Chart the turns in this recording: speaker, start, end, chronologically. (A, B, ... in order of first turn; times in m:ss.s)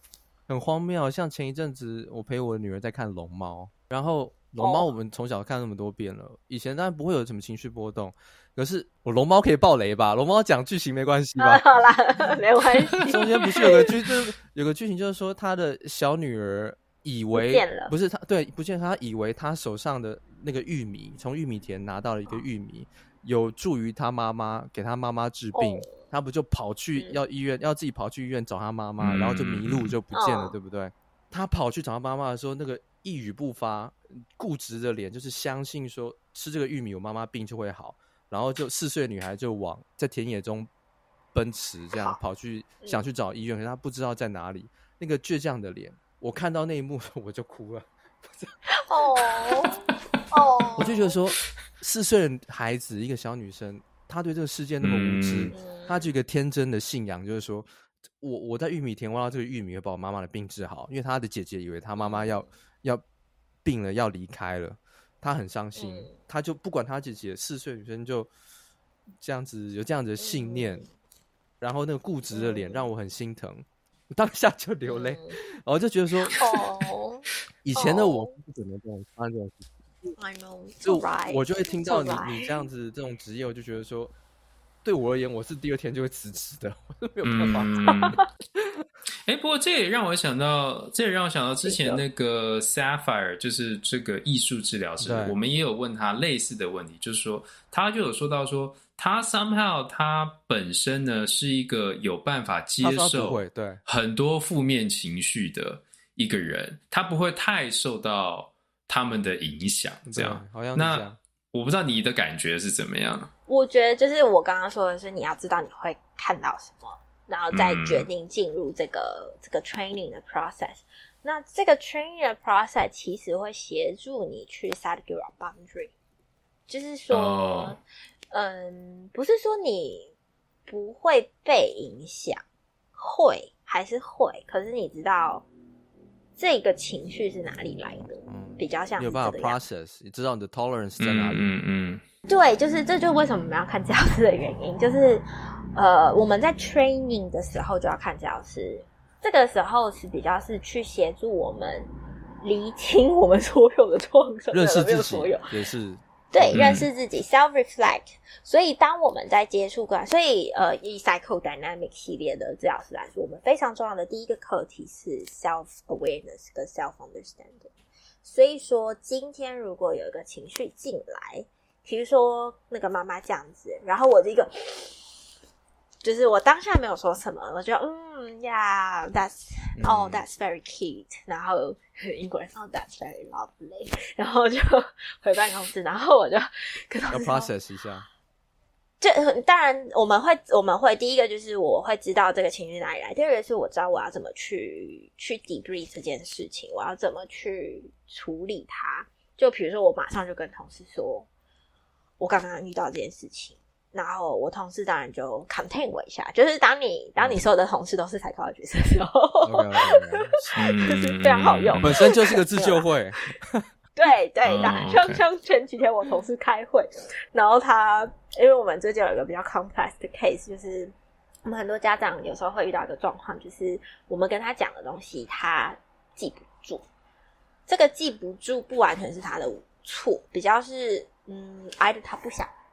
0:00.5-0:11.7 A
0:04.6-0:04.9 B
0:11.4-0:13.9 B
0:13.0-0:40.7 A
0:17.3-0:17.9 B
0:25.5-0:26.0 B
0:29.0-0:29.9 C
0:30.1-0:30.5 B
0:41.3-0:48.5 A
0:48.7-0:51.1 B
0:50.8-0:57.7 A
0:54.8-0:55.6 C
0:55.5-0:56.1 B
0:58.2-1:03.0 A
1:02.0-1:02.5 B
1:03.6-1:08.3 A
1:05.8-1:06.1 B
1:09.2-1:10.9 A
1:10.2-1:10.9 B
1:11.6-1:16.4 A
1:12.3-1:12.9 B
1:14.9-1:15.4 B
1:16.3-1:18.4 B
1:17.6-1:20.1 A
1:20.2-1:22.6 B
1:20.8-1:24.1 A
1:24.8-1:28.2 A
1:27.2-1:28.2 C
1:27.8-1:28.2 B
1:29.2-1:53.3 C
1:31.7-1:32.0 B
1:35.0-1:35.4 A
1:42.8-1:43.8 A
1:50.1-1:51.2 A
1:53.5-2:05.9 B
1:57.5-1:58.1 C
2:06.7-2:07.8 B
2:07.1-2:07.8 C
2:08.3-2:10.1 B
2:10.7-2:12.4 B
2:13.0-2:15.5 B
2:16.4-2:19.6 B
2:18.3-2:21.5 A
2:21.0-2:22.0 C
2:22.3-2:31.9 B
2:32.4-2:35.5 B
2:34.5-2:36.7 A
2:36.3-2:47.7 B
2:36.5-2:36.9 C
2:48.2-2:55.0 B
2:56.0-3:07.5 B
2:59.8-3:00.2 A
3:07.1-3:08.1 A
3:09.0-3:21.3 B
3:22.2-3:32.9 B
3:27.2-3:27.4 A
3:29.4-3:30.5 A
3:30.6-3:31.9 C
3:31.8-3:33.7 A
3:34.0-3:40.9 B
3:34.4-3:35.2 C
3:41.4-3:46.8 B
3:47.7-3:52.5 B